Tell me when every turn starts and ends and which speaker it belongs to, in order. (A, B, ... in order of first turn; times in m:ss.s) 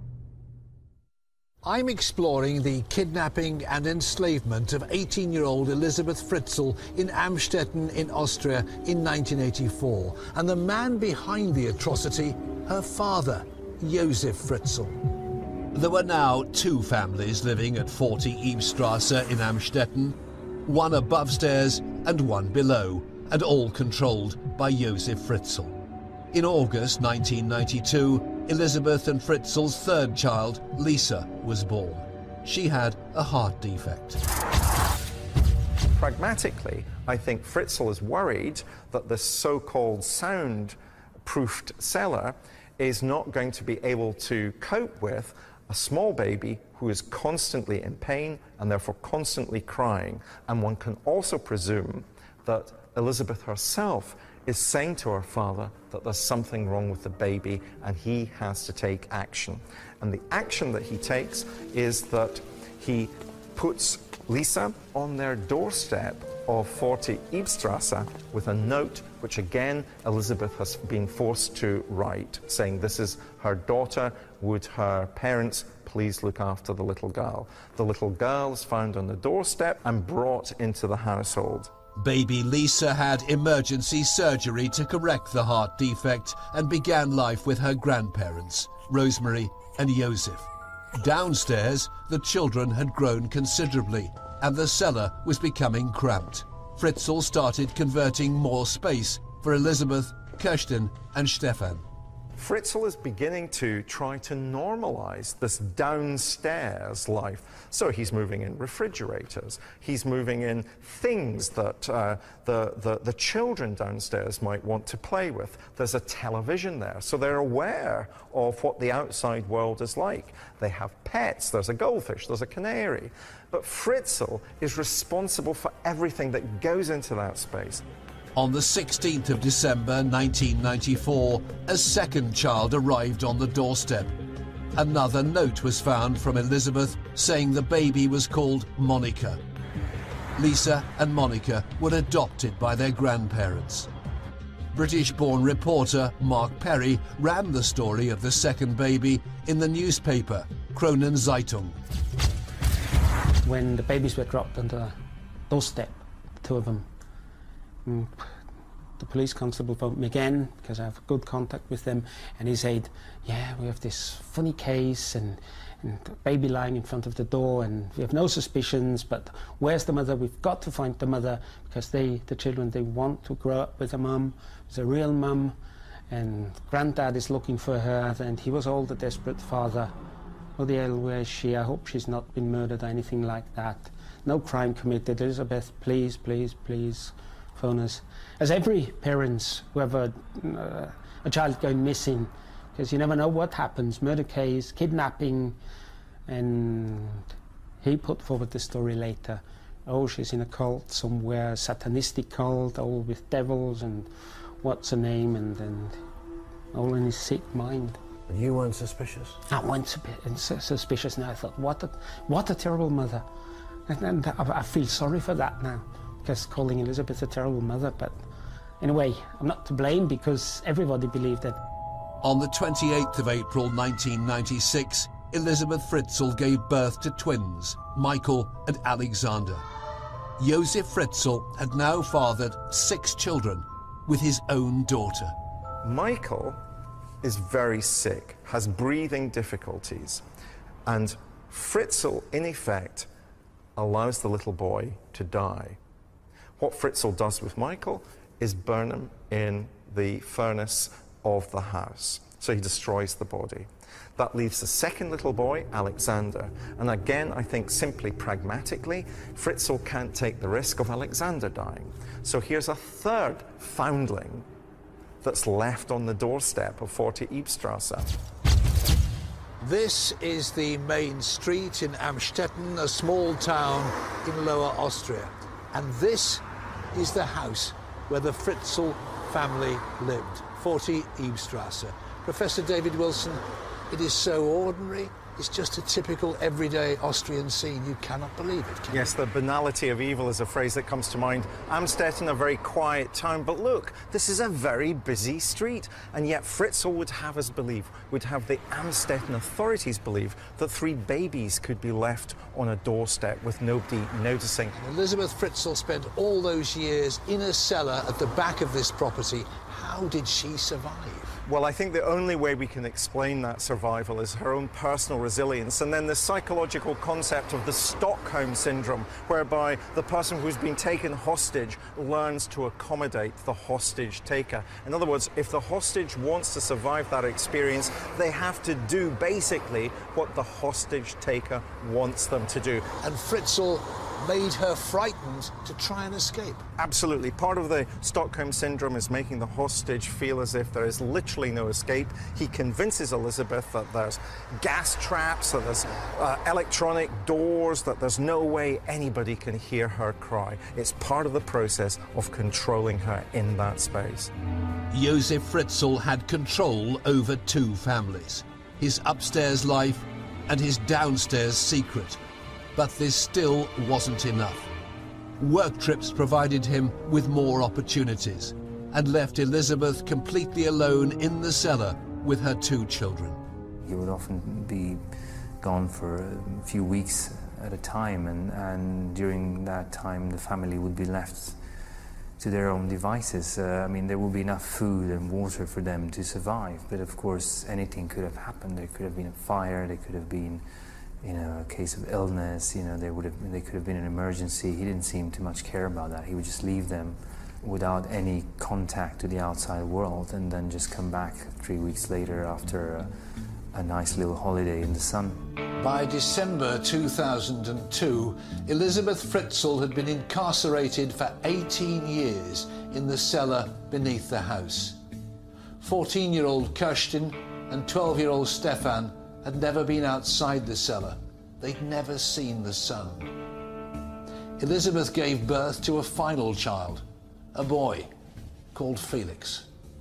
0:01.6-0:15.0 A
0:15.7-0:25.7 B
0:26.3-0:34.2 B
0:36.0-1:21.7 C
1:22.0-1:41.8 B
1:42.4-2:07.8 C
2:08.3-2:14.1 B
2:14.7-2:19.4 B
2:20.4-2:23.9 B
2:24.7-2:31.8 B
2:33.4-2:35.0 D
2:35.5-2:36.9 D
2:37.8-2:38.3 D
2:39.0-2:55.5 D
2:56.1-2:59.9 D
3:00.6-3:15.6 D
3:16.3-3:17.3 D
3:17.8-3:24.1 D
3:24.6-3:26.0 D
3:26.7-3:28.0 D
3:28.3-3:29.4 A
3:29.5-3:33.2 D
3:33.9-3:38.2 D
3:38.8-3:41.6 D
3:42.2-3:49.6 B
3:50.4-3:55.3 B
3:55.8-3:56.6 C
3:57.2-4:00.2 C
4:00.8-4:03.1 C
4:03.8-4:05.8 C
4:06.6-4:24.4 C
4:25.2-4:28.1 C
4:29.6-4:49.0 A
4:48.9-5:04.7 C
5:04.8-5:11.4 A
5:11.4-5:32.9 C
5:33.0-5:36.6 A
5:36.8-5:54.3 C
5:54.9-6:02.2 B
6:02.8-6:04.7 B
6:05.4-6:13.4 B
6:13.8-6:15.0 E
6:15.6-6:21.6 E
6:22.4-6:30.6 E
6:31.2-6:43.1 E
6:43.7-6:45.5 E
6:45.8-6:55.0 A
6:55.8-7:03.3 A
7:04.6-7:07.0 A
7:07.5-7:08.1 A
7:08.7-7:09.7 A